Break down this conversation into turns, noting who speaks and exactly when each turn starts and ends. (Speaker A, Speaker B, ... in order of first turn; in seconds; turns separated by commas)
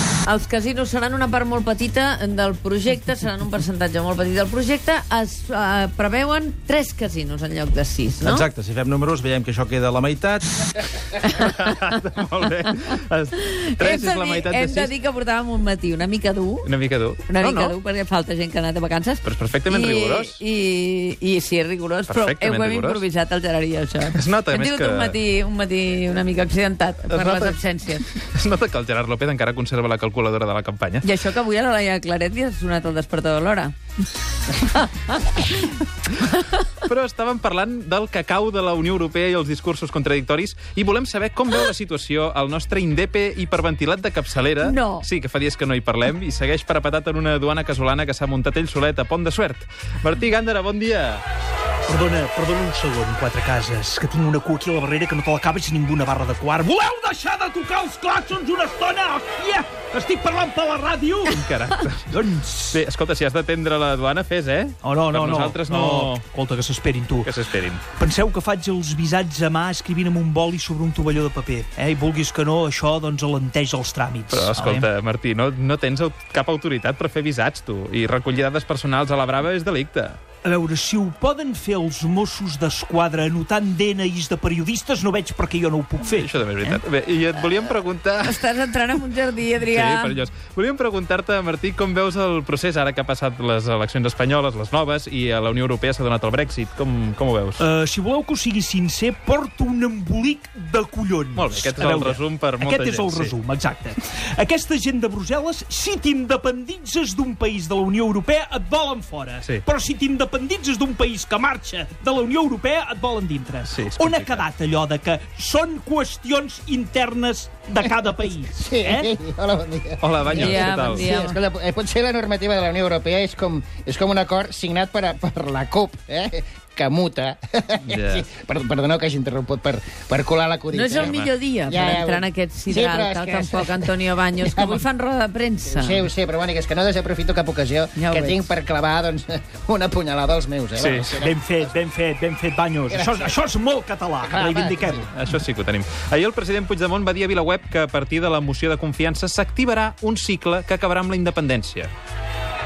Speaker A: 0.2-8.5, Speaker B: 8.3-10.5, Speaker A: 11.2-11.8, Speaker C: 11.3-14.9, Speaker A: 13.5-16.7, Speaker C: 16.6-17.8, Speaker A: 17.3-28.1, Speaker C: 19.2-20.4, Speaker C: 22.1-23.0, Speaker C: 24.1-25.2, Speaker C: 27.1-27.6, Speaker C: 28.1-31.1, Speaker A: 31.0-33.7, Speaker A: 34.6-36.6, Speaker C: 36.9-51.2, Speaker A: 44.6-45.1, Speaker D: 51.9-61.4, Speaker C: 61.3-62.1, Speaker D: 62.1-62.8, Speaker C: 62.7-66.2, Speaker D: 64.8-67.3, Speaker C: 67.2-67.8, Speaker D: 68.0-74.9, Speaker C: 74.3-80.2, Speaker D: 80.4-86.8, Speaker C: 86.1-88.5, Speaker A: 87.6-90.2, Speaker C: 89.6-97.6, Speaker D: 97.6-119.1, Speaker C: 101.4-103.3, Speaker C: 113.7-114.5, Speaker E: 117.8-134.8, Speaker C: 120.0-121.1, Speaker A: 120.3-121.4, Speaker C: 127.9-128.3, Speaker A: 130.7-136.1, Speaker C: 131.0-131.3, Speaker E: 135.7-141.7, Speaker A: 138.0-138.5, Speaker C: 140.8-141.2, Speaker D: 141.2-145.1, Speaker E: 142.9-143.3, Speaker E: 144.2-144.9, Speaker C: 145.1-151.9